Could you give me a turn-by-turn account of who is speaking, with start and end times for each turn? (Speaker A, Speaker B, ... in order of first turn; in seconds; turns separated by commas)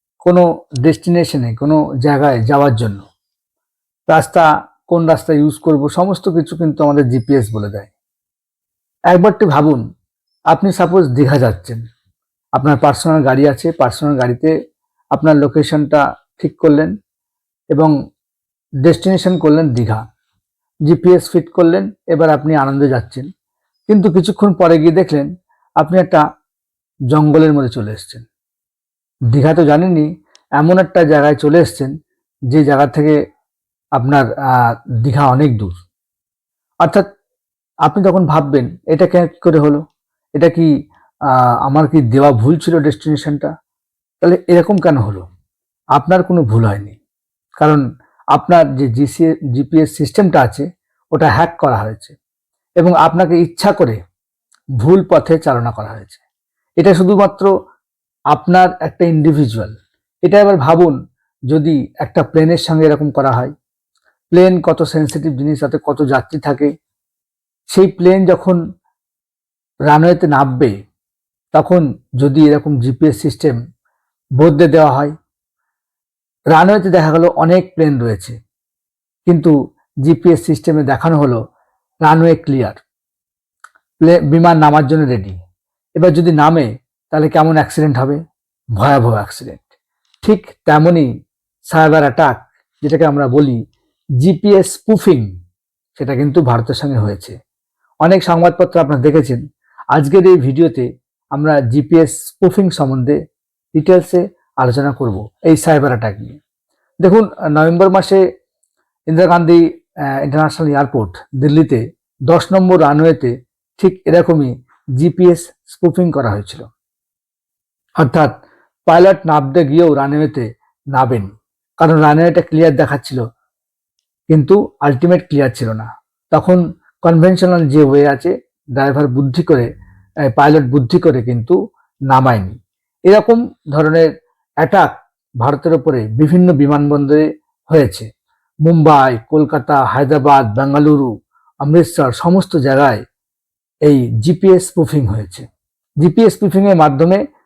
Speaker A: 0.2-3.0, Speaker A: 4.1-7.9, Speaker A: 9.1-9.8, Speaker A: 10.5-11.8, Speaker A: 12.6-14.5, Speaker A: 15.2-16.9, Speaker A: 18.8-20.0, Speaker A: 20.9-23.3, Speaker A: 23.9-25.3, Speaker A: 25.8-26.2, Speaker A: 27.1-28.3, Speaker A: 29.3-31.9, Speaker A: 32.5-33.2, Speaker A: 34.0-35.8, Speaker A: 37.8-39.8, Speaker A: 40.4-40.7, Speaker A: 41.3-43.5, Speaker A: 44.2-45.2, Speaker A: 46.0-47.0, Speaker A: 48.3-52.2, Speaker A: 52.8-54.0, Speaker A: 54.8-56.2, Speaker A: 56.8-57.5, Speaker A: 58.3-59.7, Speaker A: 60.2-60.9, Speaker A: 61.5-63.5, Speaker A: 64.3-66.7, Speaker A: 67.7-68.6, Speaker A: 69.9-70.8, Speaker A: 71.5-73.5, Speaker A: 74.4-75.1, Speaker A: 76.5-78.4, Speaker A: 79.2-79.5, Speaker A: 80.0-81.4, Speaker A: 82.0-82.8, Speaker A: 84.0-85.4, Speaker A: 86.0-88.2, Speaker A: 88.8-89.6, Speaker A: 90.2-91.1, Speaker A: 91.7-93.6, Speaker A: 94.2-95.3, Speaker A: 96.0-97.3, Speaker A: 98.0-99.4, Speaker A: 99.9-103.2, Speaker A: 103.8-106.4, Speaker A: 107.0-108.2, Speaker A: 109.1-109.6, Speaker A: 110.2-116.7, Speaker A: 118.0-118.3, Speaker A: 118.9-123.2, Speaker A: 124.3-129.7, Speaker A: 130.3-131.6, Speaker A: 132.1-132.6, Speaker A: 133.1-134.1, Speaker A: 134.6-138.1, Speaker A: 138.7-141.1, Speaker A: 141.6-143.0, Speaker A: 143.9-145.5, Speaker A: 146.0-147.2